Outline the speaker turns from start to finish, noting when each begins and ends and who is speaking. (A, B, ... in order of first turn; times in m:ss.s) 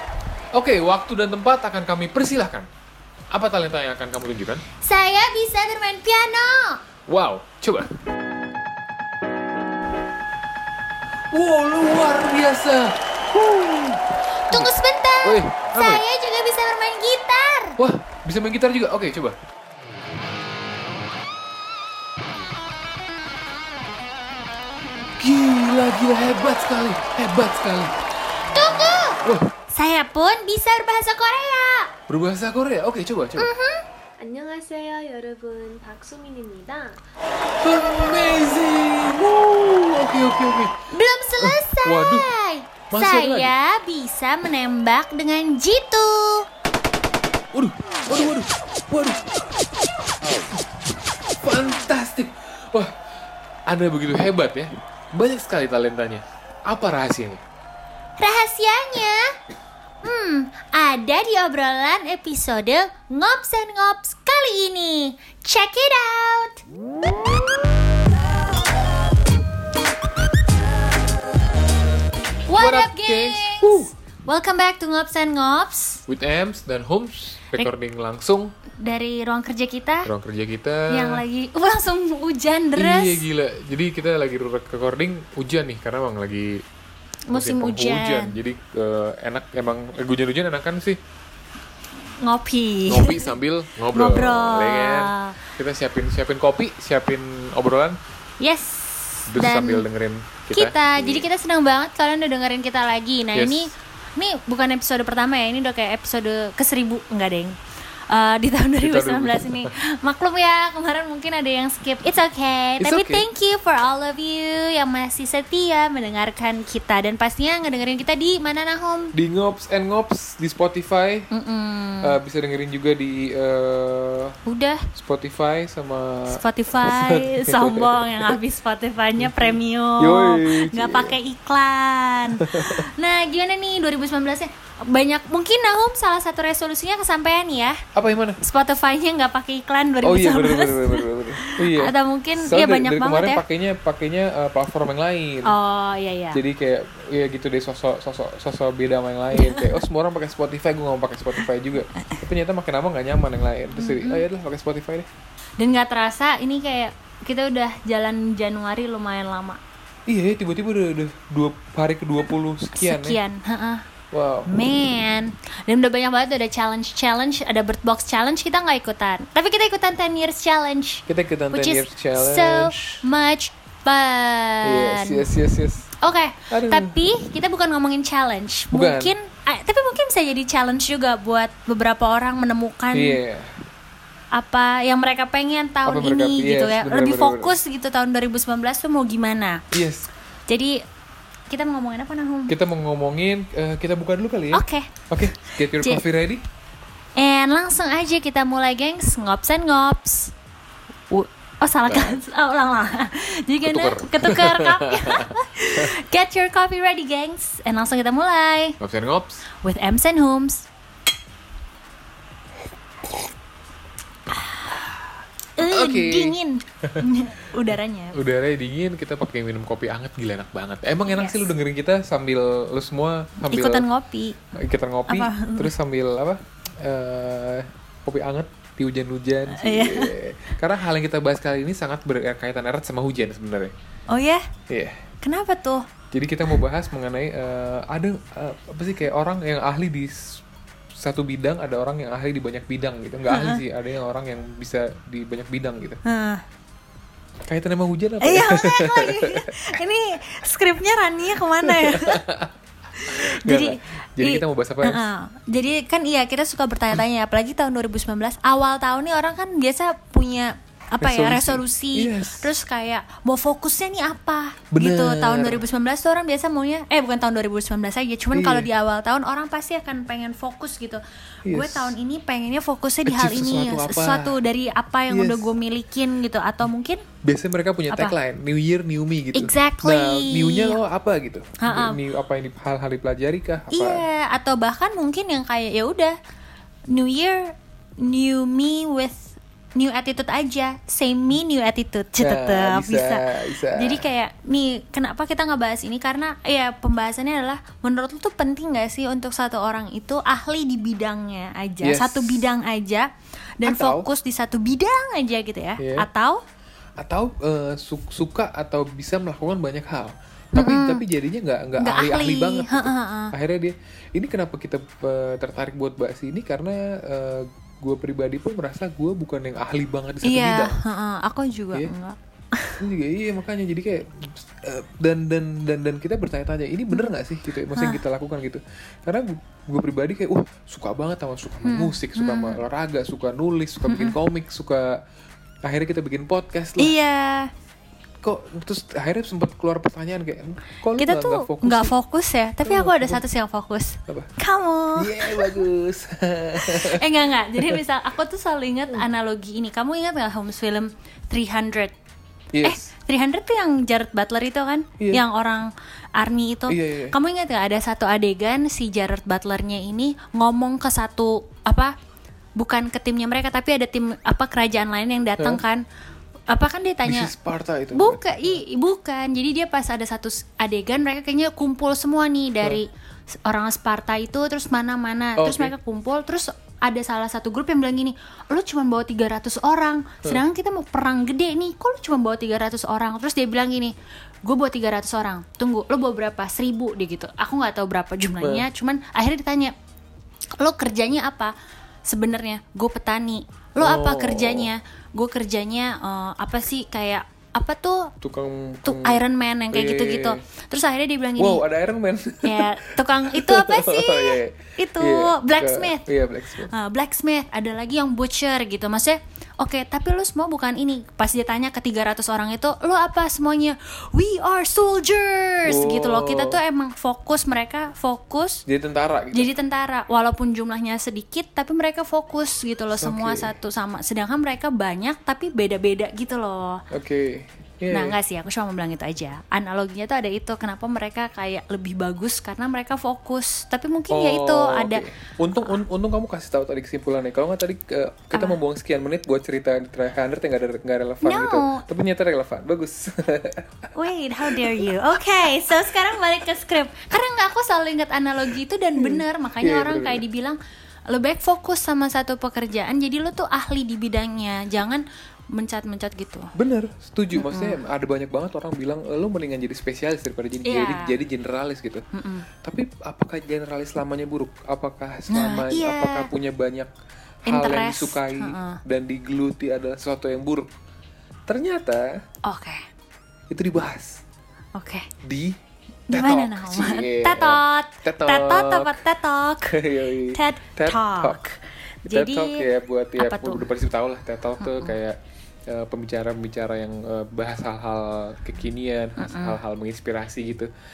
0:00.5-0:02.7 A
0:03.3-0:04.6 A
0:04.8-0:06.8 B
0:07.1-0:07.9 A
0:11.3-0:16.0 A
0:14.5-0:17.8 B
0:17.8-0:19.4 A
0:25.2-0:27.9 A
0:28.5-0:31.9 B
0:29.2-0:29.5 A
0:32.1-0:33.5 A
0:33.4-0:33.8 B
0:34.2-0:37.0 C
0:37.6-0:40.8 A
0:40.9-0:46.5 B
0:41.4-0:42.3 A
0:42.9-0:43.5 A
0:47.5-0:49.3 A
0:51.4-0:52.9 A
0:53.7-0:57.4 A
0:58.2-0:59.2 B
1:00.0-1:06.6 B
1:12.5-1:16.0 B
1:12.6-1:13.9 A
1:16.1-1:18.5 A
1:18.8-1:20.1 B
1:20.0-1:21.2 A
1:20.9-1:23.3 B
1:22.7-1:26.6 A
1:27.3-1:28.4 B
1:27.3-1:31.0 A
1:32.2-1:33.3 B
1:32.8-1:38.0 A
1:33.9-1:35.4 B
1:38.4-1:39.8 B
1:39.3-1:41.3 A
1:40.5-1:47.6 B
1:43.3-1:43.7 A
1:48.1-1:59.1 B
1:48.8-1:49.7 A
1:52.8-1:53.2 A
1:59.1-2:01.3 A
2:01.3-2:02.2 B
2:02.0-2:04.4 A
2:04.4-2:04.9 B
2:05.0-2:08.4 A
2:06.3-2:17.8 B
2:09.2-2:11.2 A
2:12.3-2:12.9 A
2:17.9-2:18.4 A
2:18.4-2:23.4 B
2:20.0-2:25.5 A
2:25.4-2:26.4 B
2:26.3-2:35.1 A
2:29.3-2:29.8 B
2:33.8-2:34.2 B
2:35.6-2:39.6 B
2:40.1-2:43.2 A
2:42.8-2:43.8 B
2:44.1-2:44.5 A
2:44.5-2:55.2 B
2:51.1-2:53.0 A
2:54.6-2:55.9 A
2:56.0-3:03.2 B
2:56.5-2:57.0 A
2:58.7-2:59.1 A
3:02.9-3:03.6 A
3:04.3-3:09.6 B
3:05.8-3:07.6 A
3:09.7-3:10.1 A
3:10.5-3:10.8 B
3:11.5-3:12.6 B
3:12.5-3:16.4 A
3:14.5-3:14.9 B
3:15.5-3:16.0 B
3:17.2-3:20.3 B
3:21.1-3:28.8 B
3:21.9-3:22.2 A
3:23.6-3:25.9 A
3:28.8-3:29.4 A
3:29.6-3:30.7 B
3:35.6-3:38.2 B
3:35.6-3:37.0 A
3:38.1-3:43.8 A
3:41.1-3:41.5 B
3:43.5-3:44.4 B
3:44.5-3:53.7 A
3:45.1-3:45.7 B
3:49.5-3:50.1 B
3:54.1-3:54.4 B
3:54.7-3:55.0 A
3:55.2-3:55.9 B
3:56.1-4:00.4 A
4:01.0-4:06.0 A
4:03.3-4:03.6 B
4:06.0-4:06.4 B
4:07.4-4:09.5 A
4:08.2-4:12.2 B
4:11.6-4:12.5 A
4:13.0-4:37.0 B
4:13.0-4:15.0 A
4:21.0-4:22.5 A
4:24.7-4:25.6 A
4:28.3-4:28.7 A
4:31.4-4:32.0 A
4:33.0-4:34.4 A
4:35.1-4:35.5 A
4:37.2-4:44.0 A
4:37.9-4:38.2 B
4:39.3-4:40.8 B
4:41.6-4:42.0 B
4:43.7-4:46.1 B
4:46.9-5:03.1 B
4:52.2-4:54.1 A
5:01.8-5:02.5 A
5:03.6-5:06.4 B
5:03.6-5:04.1 A
5:05.8-5:06.1 A
5:07.0-5:20.8 A
5:10.5-5:11.0 B
5:11.8-5:13.3 B
5:20.2-5:22.8 B
5:22.8-5:35.0 A
5:27.7-5:28.0 B
5:31.6-5:32.6 B
5:33.8-5:34.2 B
5:35.6-5:36.9 A
5:36.8-5:37.5 B
5:38.2-5:41.9 A
5:41.0-5:45.6 B
5:42.6-5:43.2 A
5:44.1-5:44.3 A
5:45.0-5:47.8 A
5:46.6-5:51.9 B
5:52.5-5:52.9 A
5:52.6-6:01.9 B
5:55.0-5:55.2 A
5:56.7-5:57.2 A
6:02.6-6:05.8 B
6:06.5-6:07.3 B
6:07.0-6:08.6 A
6:07.9-6:29.7 B
6:15.4-6:15.7 A
6:28.4-6:28.6 A
6:30.6-6:38.1 B
6:33.8-6:34.7 A
6:38.2-6:40.4 A
6:38.8-6:41.6 B
6:41.4-6:46.7 A
6:42.4-6:46.0 B
6:46.6-6:58.6 B
6:55.6-6:56.6 A
6:58.6-6:59.5 A
6:59.3-7:06.8 B
7:02.9-7:03.5 A
7:06.9-7:08.2 A
7:07.9-7:15.0 B
7:14.1-7:23.9 A
7:18.3-7:18.6 B
7:21.2-7:21.8 B
7:23.9-7:36.5 B
7:24.4-7:24.9 A
7:29.0-7:30.2 A
7:36.5-7:42.0 A
7:37.3-7:37.8 B
7:40.6-7:41.2 B
7:42.1-7:42.5 B
7:42.6-7:46.9 A
7:45.3-7:46.3 B
7:47.4-7:48.8 B
7:47.4-7:50.7 A
7:51.5-7:52.2 A
7:52.4-7:52.8 B
7:53.5-7:54.2 A
7:54.7-7:55.1 B
7:55.2-7:55.6 A
7:56.1-7:59.0 A
7:56.1-7:59.8 B
7:59.7-8:01.4 A
8:00.3-8:02.6 B
8:02.0-8:10.7 A
8:03.2-8:03.6 B
8:04.6-8:04.9 B
8:09.2-8:09.6 B